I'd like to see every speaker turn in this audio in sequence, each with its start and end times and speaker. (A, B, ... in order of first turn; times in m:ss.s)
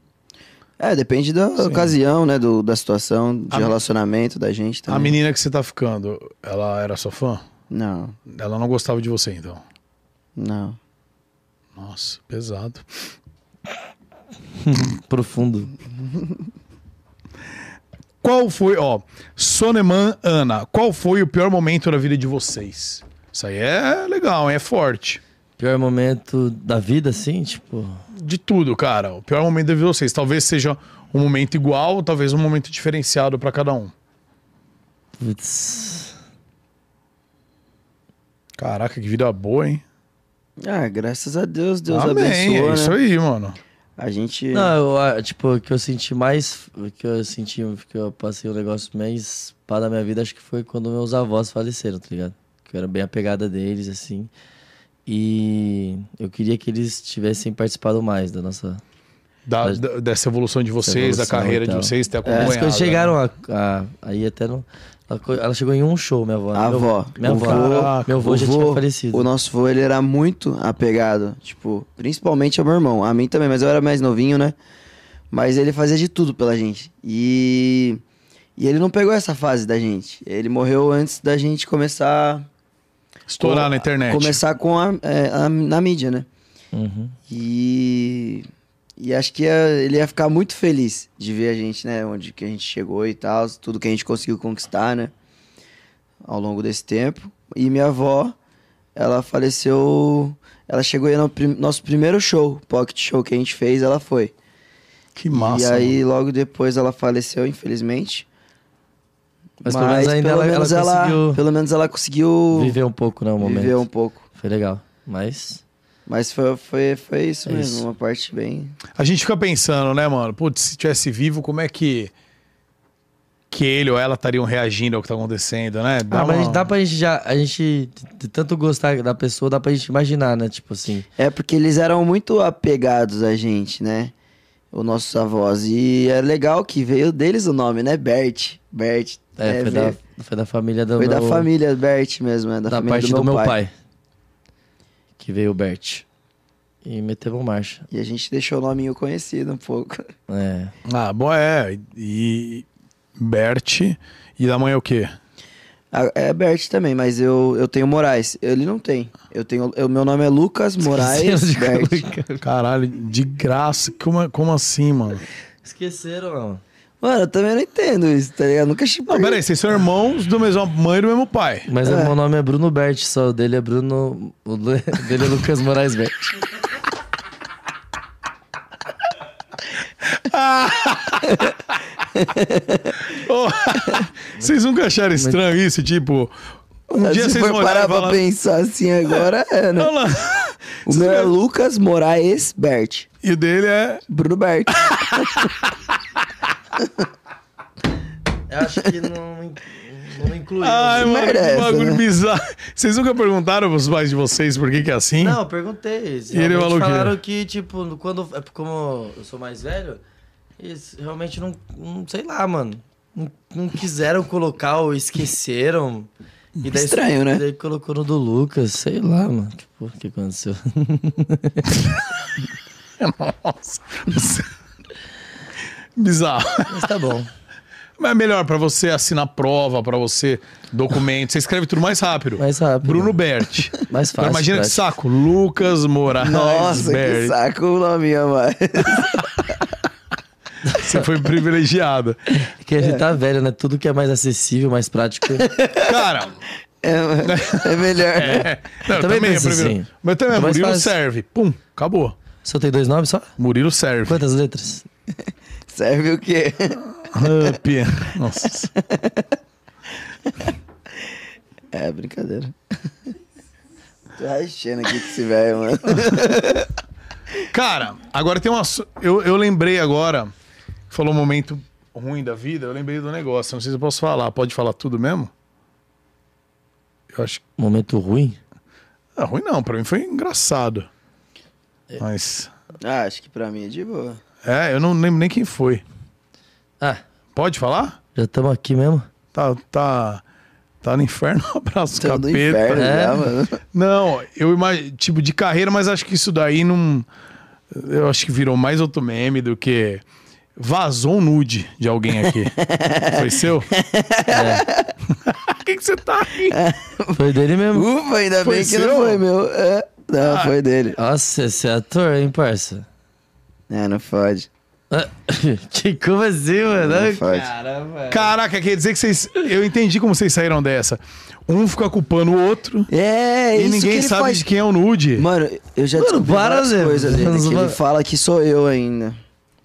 0:00.8-0:05.2 A
0:04.9-0:07.4 B
0:07.7-0:08.2 A
0:08.3-0:09.6 B
0:10.4-0:10.8 A
0:11.8-0:12.8 B
0:14.6-0:15.7 C
0:18.2-0:25.2 B
0:25.6-0:28.0 C
0:28.2-0:33.9 B
0:35.2-0:36.2 C
0:38.6-0:39.8 B
0:40.6-0:43.0 A
0:41.9-0:43.6 B
0:44.0-0:44.7 A
0:44.5-0:54.3 C
0:55.1-0:58.8 C
0:59.5-1:03.2 B
1:00.8-1:09.3 C
1:02.2-1:02.5 A
1:06.6-1:14.6 A
1:07.2-1:08.8 B
1:15.3-1:18.0 A
1:18.6-1:22.5 A
1:23.3-1:24.4 B
1:23.4-1:26.3 A
1:26.7-1:27.2 C
1:27.3-1:35.1 A
1:36.2-1:38.4 A
1:39.0-1:44.3 A
1:45.2-1:46.0 B
1:45.3-1:48.3 A
1:49.6-1:52.8 A
1:49.6-1:51.4 C
1:52.5-1:53.8 C
1:53.4-1:54.2 A
1:54.4-1:55.6 C
1:56.1-1:58.8 A
1:57.5-1:57.8 C
1:59.0-2:02.1 B
2:03.5-2:06.7 B
2:06.1-2:11.1 C
2:11.2-2:14.1 A
2:14.7-2:20.0 A
2:19.4-2:21.5 C
2:21.0-2:23.6 A
2:22.7-2:23.7 C
2:25.2-2:26.0 C
2:26.8-2:27.8 C
2:27.9-2:30.1 A
2:30.3-2:30.7 C
2:30.9-2:32.7 B
2:33.2-2:35.1 B
2:35.9-2:42.1 A
2:40.8-2:42.4 C
2:42.4-2:45.2 B
2:45.6-2:46.6 C
2:47.0-2:49.4 A
2:49.1-2:51.7 B
2:51.7-2:56.4 C
2:51.8-2:52.1 A
3:00.1-3:01.5 B
3:02.2-3:03.0 A
3:03.1-3:06.3 B
3:06.9-3:08.2 B
3:06.9-3:09.9 A
3:09.8-3:11.3 B
3:10.9-3:13.1 A
3:13.2-3:14.0 B
3:14.1-3:15.4 A
3:14.8-3:15.6 B
3:18.5-3:21.1 C
3:20.6-3:25.4 B
3:21.0-3:22.0 A
3:25.2-3:30.0 C
3:26.3-3:27.2 B
3:30.6-3:36.1 C
3:36.6-3:41.8 C
3:36.7-3:37.4 A
3:43.0-3:44.5 B
3:46.0-3:46.7 B
3:46.7-3:47.3 C
3:48.0-3:57.3 B
3:52.4-3:53.2 C
3:53.8-3:54.8 C
3:56.2-3:59.3 A
4:00.7-4:02.2 B
4:02.6-4:05.5 C
4:02.8-4:03.1 A
4:05.4-4:05.9 A
4:05.8-4:06.3 B
4:06.8-4:08.5 A
4:07.2-4:12.2 B
4:08.9-4:10.9 C
4:12.4-4:13.3 C
4:13.4-4:14.2 B
4:14.1-4:14.8 C
4:15.7-4:17.3 A
4:17.1-4:18.7 B
4:18.8-4:19.3 A
4:21.7-4:22.6 A
4:24.2-4:26.7 A
4:27.5-4:30.3 B
4:30.9-4:35.3 B
4:37.1-4:37.4 B
4:37.6-4:38.4 C
4:39.2-4:40.9 B
4:42.0-4:42.5 B
4:42.8-4:44.2 A
4:44.4-4:45.8 B
4:47.3-4:48.0 B
4:48.2-4:49.1 C
4:49.3-4:50.2 B
4:50.8-4:52.9 B
4:52.0-4:53.6 A
4:52.8-4:53.2 C
4:53.7-4:57.1 B
4:57.7-5:00.0 B
5:00.6-5:02.6 B
5:02.6-5:04.9 A
5:03.1-5:03.7 B
5:04.3-5:04.6 C
5:05.3-5:06.6 B
5:06.5-5:07.2 A
5:07.1-5:07.9 C
5:07.7-5:11.0 A
5:08.4-5:09.2 B
5:10.2-5:10.5 B
5:11.0-5:12.9 C
5:13.7-5:14.5 A
5:14.9-5:18.3 C
5:16.8-5:17.5 A
5:18.1-5:22.9 B
5:22.9-5:24.4 A
5:23.6-5:25.3 B
5:25.2-5:29.2 A
5:26.0-5:27.8 C